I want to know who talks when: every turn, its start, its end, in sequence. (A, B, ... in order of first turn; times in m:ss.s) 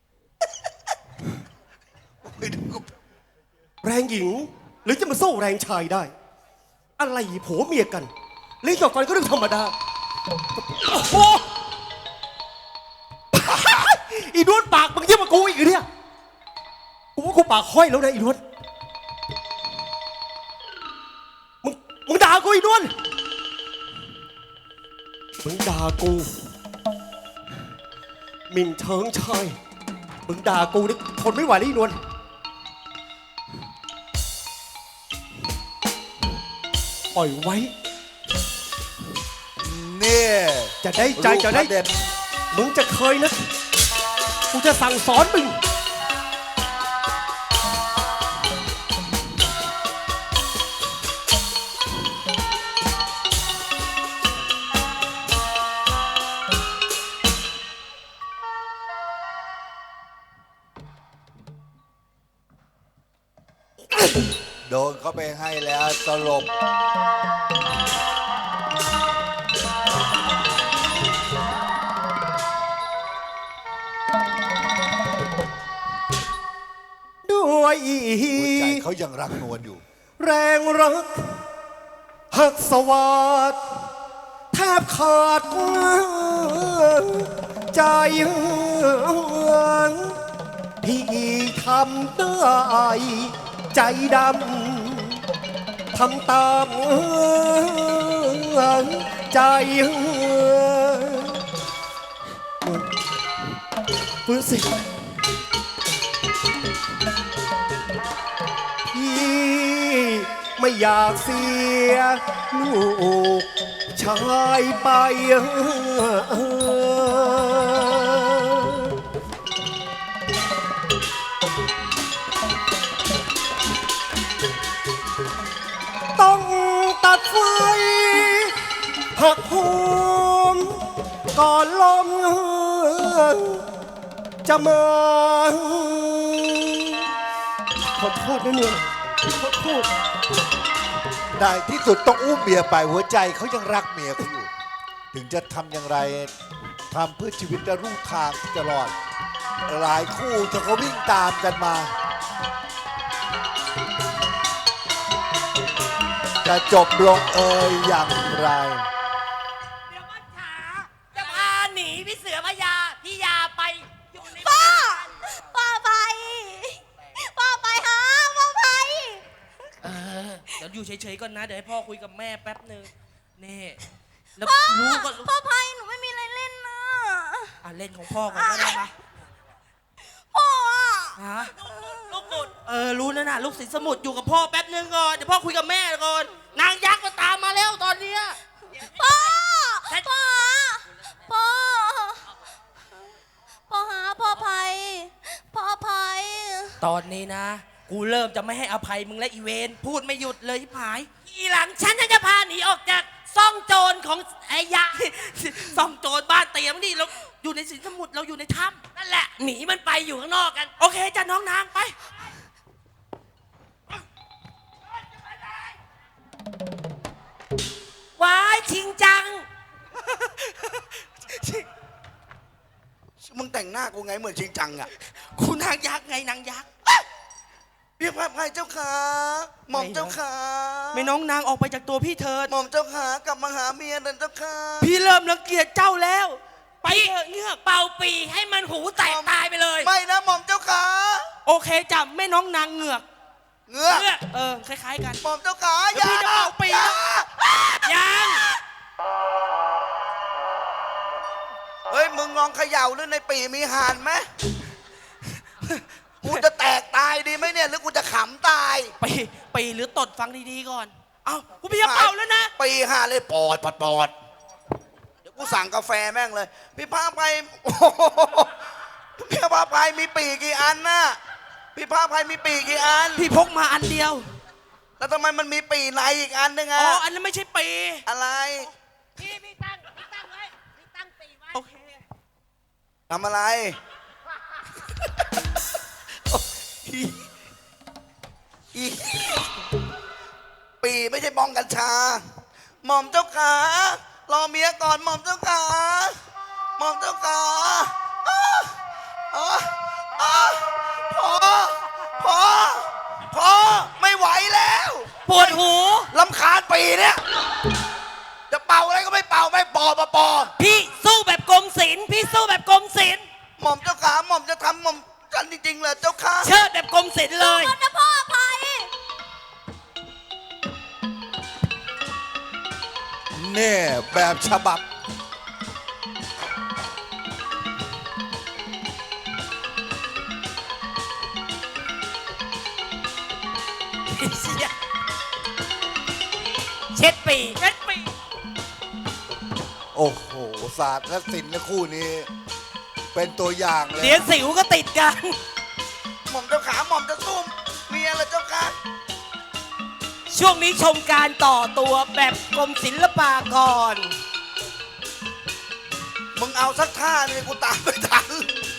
0:02.2-0:02.9 A
0:03.8-0:06.1 B
0:07.0-0:08.1 B
0:08.6-0:09.7 B
0:10.6-0:11.5 B
0:13.3-0:15.9 B
0:17.2-0:18.4 B
0:21.6-0:22.9 B
0:25.4-0:26.3 B
0:28.5-0:29.6 B
0:30.3-0:32.0 B
0:37.1-0:37.7 B
0:39.6-0:42.0 A
0:40.8-0:41.7 B
0:42.5-0:43.5 B
0:44.5-0:45.6 B
1:04.6-1:06.5 A
1:17.3-1:18.8 B
1:18.3-1:19.8 A
1:20.2-1:21.4 B
1:22.3-1:23.6 B
1:24.5-1:30.2 B
1:30.8-1:35.2 B
1:35.9-1:41.4 B
1:42.6-1:42.9 B
1:44.3-1:44.8 B
1:48.9-1:59.0 B
2:06.2-2:08.5 B
2:09.2-2:13.6 B
2:14.4-2:17.1 B
2:17.8-2:19.9 B
2:21.4-2:24.5 A
2:25.1-2:26.3 A
2:26.9-2:28.9 A
2:29.7-2:31.9 A
2:36.4-2:38.9 A
2:40.1-2:44.7 C
2:44.3-2:49.2 D
2:49.8-2:53.8 E
2:54.4-2:55.3 E
2:54.4-2:57.6 D
2:57.6-2:58.9 E
2:58.3-2:58.8 D
3:00.3-3:02.5 D
3:01.2-3:01.6 E
3:02.1-3:08.4 E
3:08.8-3:12.2 D
3:13.7-3:16.8 D
3:16.8-3:21.1 E
3:21.3-3:25.0 C
3:24.9-3:28.8 E
3:29.0-3:30.7 C
3:30.8-3:32.0 E
3:38.2-3:39.5 C
3:40.1-3:41.7 E
3:43.2-3:44.9 F
3:45.2-3:46.7 E
3:48.0-3:51.1 F
3:49.7-3:50.2 E
3:50.9-3:52.5 E
3:52.5-3:54.9 F
3:54.8-3:57.6 E
3:56.9-3:59.9 C
3:59.0-4:01.3 F
4:01.5-4:03.0 E
4:03.7-4:04.1 F
4:03.9-4:05.2 E
4:05.2-4:07.9 F
4:05.9-4:07.0 E
4:07.8-4:08.6 C
4:11.9-4:14.3 F
4:16.2-4:18.9 F
4:19.0-4:22.5 E
4:21.8-4:24.1 F
4:25.3-4:28.6 F
4:29.2-4:31.2 F
4:31.8-4:33.3 F
4:33.2-4:34.3 E
4:35.0-4:37.0 F
4:36.8-4:38.0 E
4:38.1-4:38.7 F
4:41.5-4:41.8 E
4:43.1-4:43.8 F
4:46.3-4:47.2 F
4:48.7-4:49.3 F
4:50.8-4:52.3 F
4:52.8-4:56.2 F
4:56.8-4:58.7 F
4:59.3-5:05.6 F
5:05.3-5:06.1 C
5:06.1-5:07.2 F
5:08.5-5:10.5 F
5:10.6-5:13.2 C
5:13.6-5:16.5 F
5:16.4-5:17.8 C
5:17.4-5:18.9 D
5:23.4-5:24.8 A
5:34.1-5:34.7 C
5:36.9-5:37.6 C
5:37.6-5:38.1 E
5:40.0-5:42.3 A
5:43.1-5:44.3 A
5:44.0-5:45.4 C
5:46.3-5:48.8 F
5:50.3-5:54.1 C
5:56.4-5:58.5 F